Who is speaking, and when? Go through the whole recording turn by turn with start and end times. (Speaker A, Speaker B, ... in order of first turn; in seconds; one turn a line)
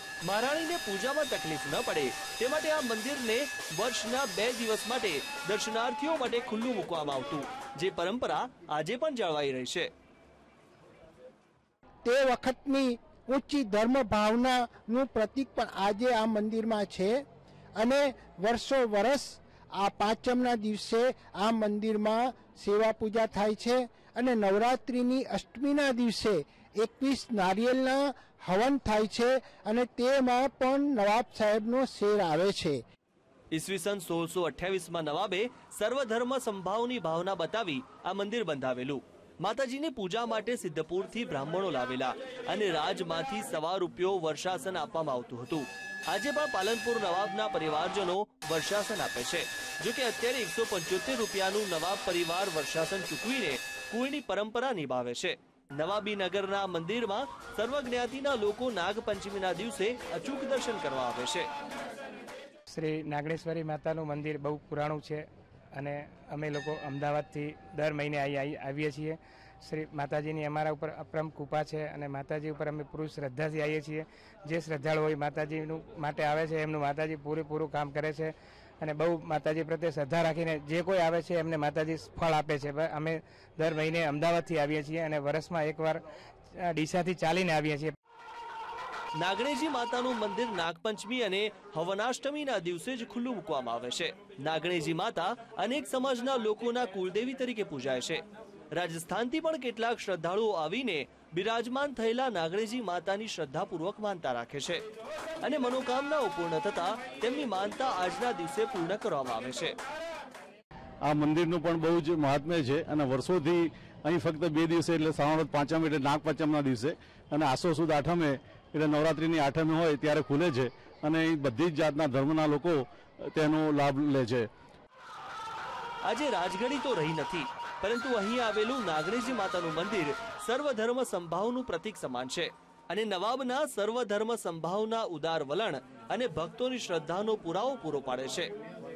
Speaker A: 0.2-9.9
Speaker B: 12.0-17.2
Speaker B: 17.8-32.8
Speaker A: 33.5-61.5
Speaker C: 62.7-65.2
Speaker C: 65.8-86.0
Speaker C: 86.6-87.9
Speaker A: 89.2-98.2
Speaker A: 98.7-104.8
Speaker A: 105.4-109.7
Speaker D: 111.0-124.5
Speaker A: 126.0-138.5